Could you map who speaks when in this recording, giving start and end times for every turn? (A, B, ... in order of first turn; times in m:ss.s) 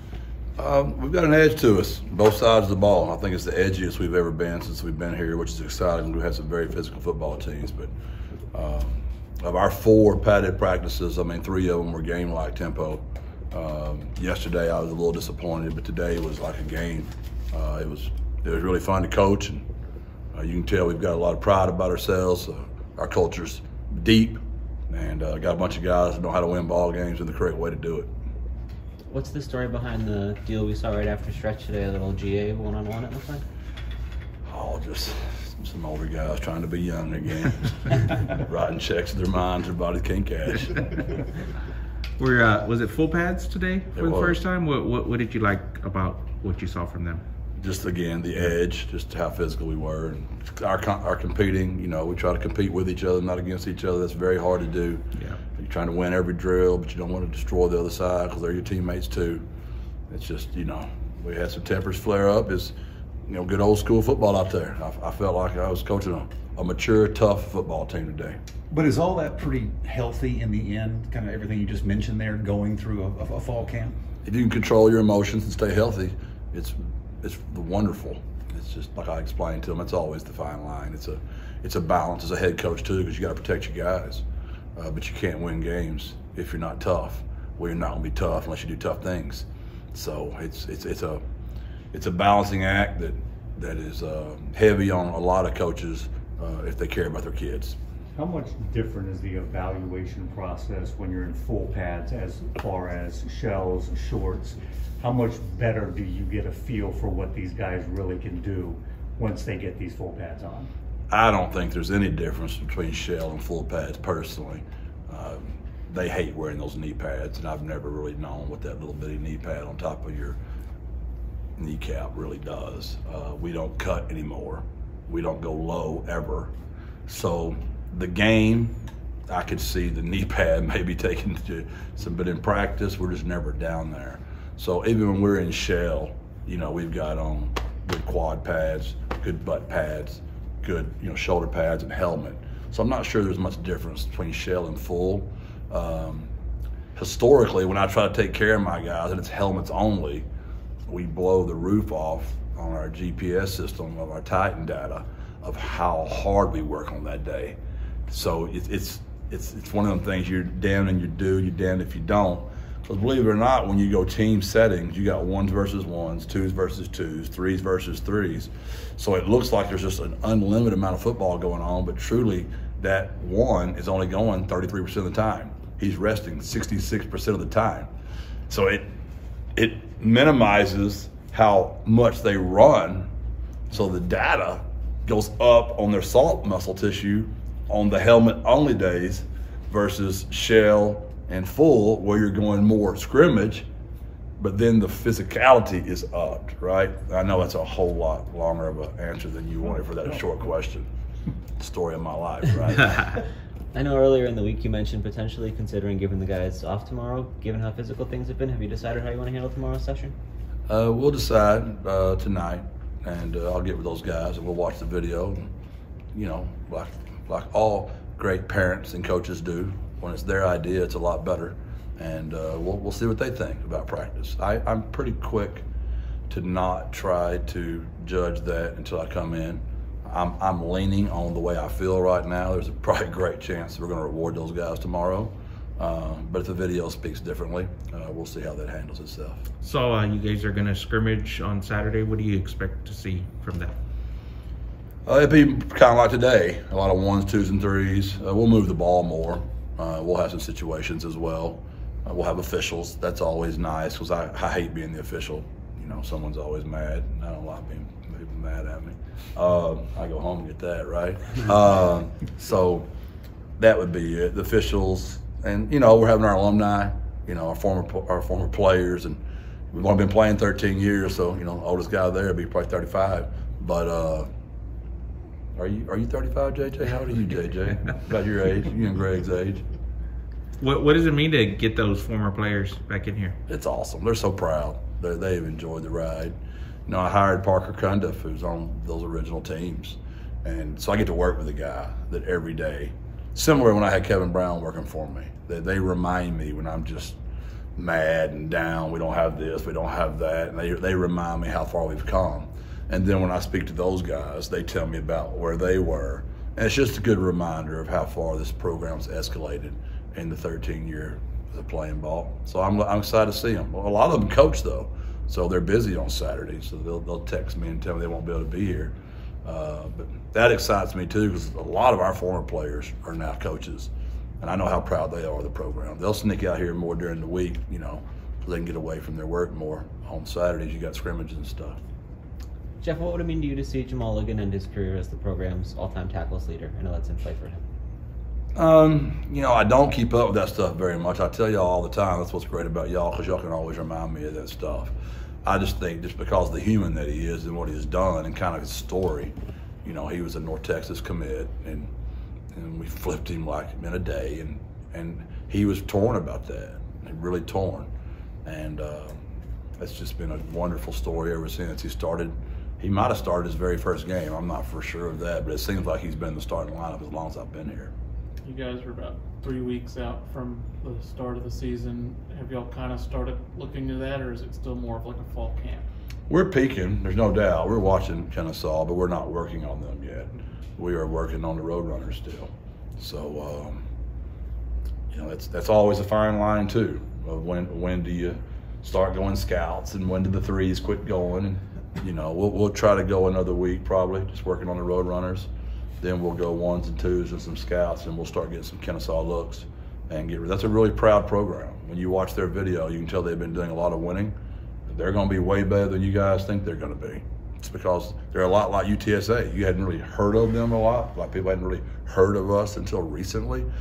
0:00.6-0:07.9 A
0:08.5-0:19.6 A
0:20.3-0:28.1 A
0:29.1-0:33.4 B
0:34.5-0:40.8 A
0:42.2-0:47.2 C
0:44.0-0:44.4 A
0:47.6-0:55.0 A
0:55.6-0:59.4 A
1:00.1-1:02.8 A
1:03.3-1:08.4 A
1:08.7-1:14.0 D
1:14.2-1:24.2 A
1:24.8-1:31.2 A
1:31.9-1:37.8 A
1:38.2-1:50.7 E
1:51.1-2:00.4 A
2:01.6-2:06.5 A
2:07.1-2:08.8 A
2:09.3-2:26.3 A
2:27.0-2:30.3 A
2:30.9-2:37.6 A
2:38.1-2:57.9 A
2:58.5-2:58.9 A
2:59.6-3:03.1 A
3:03.7-3:13.7 A
3:14.4-3:20.9 A
3:21.6-3:23.2 A
3:23.7-3:30.2 B
3:30.7-3:35.5 A
3:36.1-3:45.6 A
3:46.3-3:59.4 A
3:59.6-4:03.7 C
4:05.1-4:22.9 A
4:23.6-4:29.2 A
4:29.7-4:34.3 A
4:35.6-4:39.6 A
4:40.6-4:43.4 C
4:43.5-4:46.3 A
4:46.9-4:57.2 A
4:57.8-5:23.9 A
5:24.4-5:31.8 A
5:32.8-5:37.6 B
5:38.6-5:44.9 A
5:45.4-5:51.9 A
5:52.5-5:57.9 A
5:58.5-5:59.2 A
5:59.8-6:07.9 A
6:08.4-6:15.8 F
6:16.3-6:23.8 A
6:25.1-6:35.5 A
6:36.0-6:44.4 A
6:44.9-6:53.7 A